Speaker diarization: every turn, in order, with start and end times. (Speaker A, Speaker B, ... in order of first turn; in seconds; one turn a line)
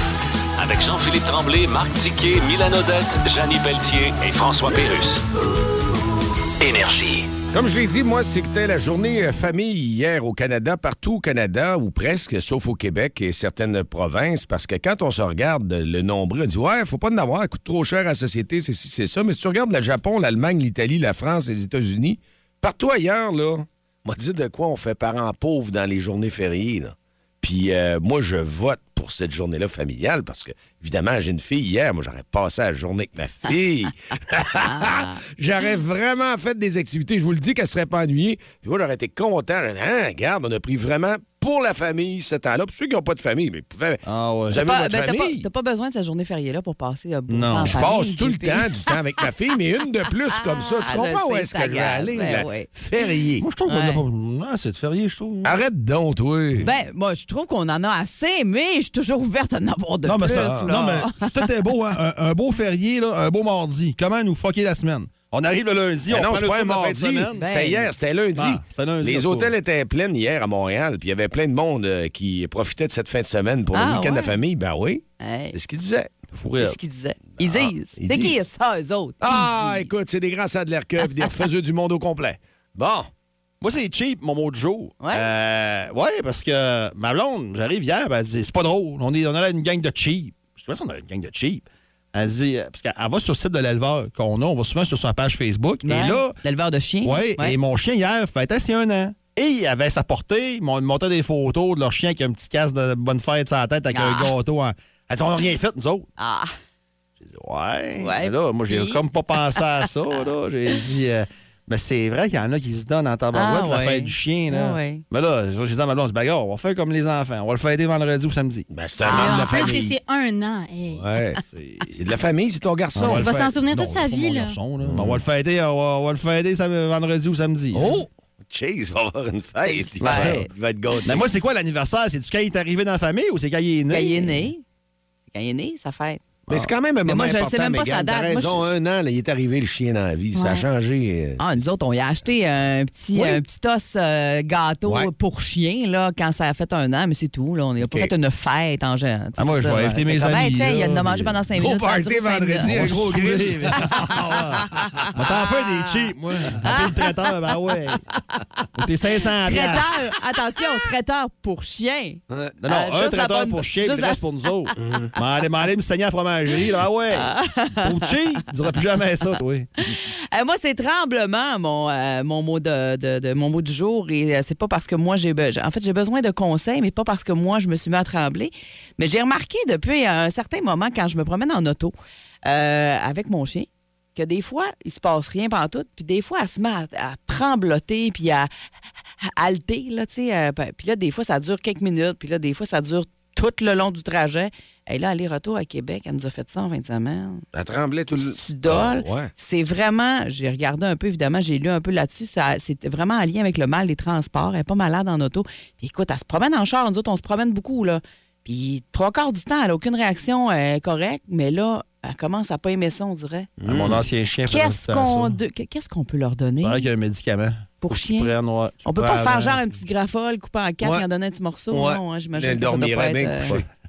Speaker A: 0.6-5.2
Speaker A: 6.6-7.3
Speaker B: 7.5-45.5
Speaker C: 34.6-35.2
Speaker D: 44.0-44.6
Speaker C: 44.6-48.9
Speaker D: 47.3-47.8
Speaker B: 47.6-53.4
Speaker C: 50.4-52.7
Speaker D: 53.4-55.5
Speaker C: 53.7-54.0
Speaker B: 55.4-56.7
Speaker C: 56.6-61.5
Speaker D: 60.0-67.4
Speaker B: 60.4-60.7
Speaker B: 66.1-76.2
Speaker C: 67.4-67.9
Speaker D: 68.3-69.5
Speaker C: 73.7-74.3
Speaker C: 75.2-75.6
Speaker D: 76.3-76.8
Speaker C: 76.6-79.9
Speaker B: 77.4-78.4
Speaker B: 79.2-83.1
Speaker D: 83.6-96.4
Speaker C: 85.0-85.3
Speaker C: 95.8-97.6
Speaker D: 97.0-106.1
Speaker C: 103.9-104.3
Speaker C: 106.2-106.5
Speaker D: 107.2-118.7
Speaker C: 108.0-109.6
Speaker C: 113.3-115.0
Speaker B: 118.7-120.0
Speaker E: 119.0-121.0
Speaker C: 119.1-119.7
Speaker B: 120.9-121.4
Speaker D: 121.5-122.0
Speaker B: 122.0-123.3
Speaker D: 123.0-128.0
Speaker E: 123.2-124.6
Speaker B: 124.8-125.2
Speaker B: 127.7-131.3
Speaker C: 129.7-130.5
Speaker D: 130.0-130.4
Speaker D: 131.1-134.5
Speaker C: 133.9-134.6
Speaker C: 135.3-136.2
Speaker B: 136.5-141.4
Speaker C: 137.1-138.7
Speaker E: 140.4-140.6
Speaker C: 141.4-152.8
Speaker B: 144.9-145.1
Speaker B: 147.8-148.1
Speaker D: 149.4-151.4
Speaker B: 151.6-155.0
Speaker D: 152.6-158.0
Speaker C: 153.8-154.2
Speaker C: 155.1-157.3
Speaker D: 158.8-160.0
Speaker C: 159.4-164.7
Speaker B: 162.3-162.6
Speaker D: 162.6-169.7
Speaker B: 164.8-165.1
Speaker C: 167.1-168.2
Speaker C: 169.9-181.9
Speaker C: 182.4-188.5
Speaker C: 189.2-197.4
Speaker B: 197.5-199.3
Speaker C: 198.3-213.5
Speaker B: 213.6-214.0
Speaker D: 213.7-215.3
Speaker C: 214.4-216.9
Speaker D: 216.6-219.6
Speaker C: 217.8-218.3
Speaker C: 218.8-223.6
Speaker B: 221.7-223.7